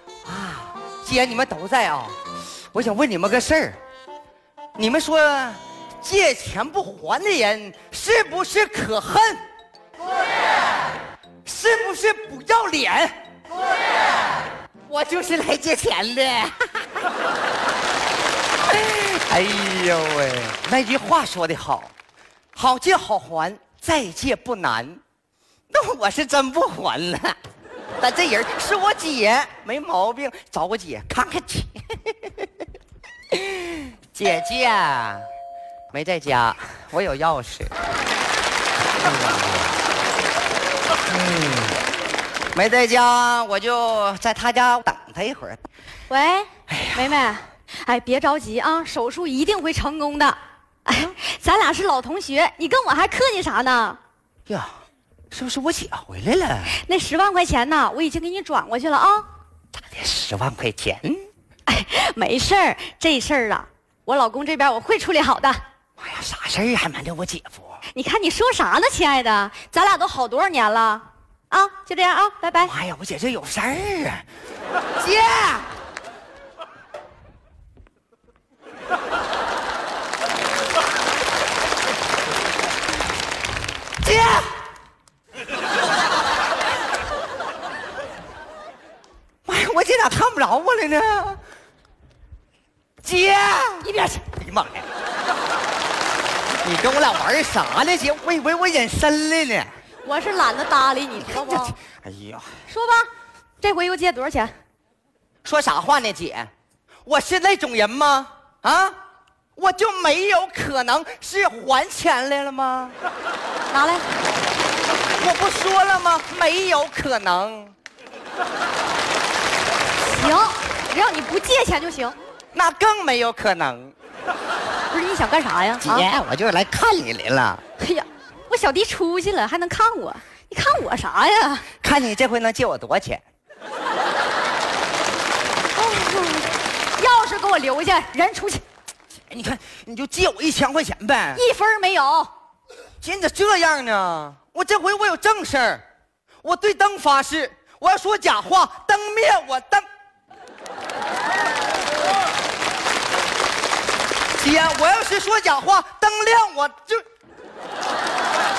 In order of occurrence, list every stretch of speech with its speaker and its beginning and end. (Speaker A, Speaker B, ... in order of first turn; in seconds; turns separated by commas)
Speaker A: 0.2-2.2, Speaker A: 2.7-3.8, Speaker A: 4.8-9.4, Speaker A: 11.4-13.1, Speaker A: 14.9-17.0, Speaker A: 18.6-21.9, Speaker A: 22.6-25.0, Speaker A: 25.7-27.4, Speaker A: 28.0-32.5, Speaker A: 33.3-35.3, Speaker A: 35.9-37.7, Speaker A: 39.0-39.7, Speaker A: 41.1-41.8, Speaker A: 42.5-45.6, Speaker B: 46.1-54.0, Speaker A: 46.7-47.2, Speaker A: 54.5-54.7, Speaker A: 55.3-56.8, Speaker B: 56.7-59.3, Speaker A: 59.8-61.3, Speaker B: 61.7-65.6, Speaker A: 66.0-67.8, Speaker B: 67.9-72.7, Speaker A: 72.6-74.2, Speaker A: 75.0-75.7, Speaker A: 84.0-84.6, Speaker A: 89.5-91.4, Speaker A: 93.0-94.9, Speaker B: 93.8-94.3, Speaker A: 96.6-99.7, Speaker B: 100.0-101.8, Speaker A: 101.2-102.6, Speaker B: 102.7-103.1, Speaker B: 103.6-104.6, Speaker A: 105.4-106.5, Speaker A: 107.1-109.0, Speaker A: 109.6-113.0, Speaker B: 113.7-114.1, Speaker A: 115.2-117.7, Speaker B: 120.0-122.2, Speaker A: 122.5-123.9, Speaker B: 124.9-126.1, Speaker A: 125.8-127.6, Speaker B: 127.8-131.7, Speaker A: 131.8-133.2, Speaker B: 135.8-138.6, Speaker A: 139.3-141.4, Speaker B: 141.3-142.3, Speaker A: 143.0-145.8, Speaker A: 146.4-149.9, Speaker A: 154.4-157.1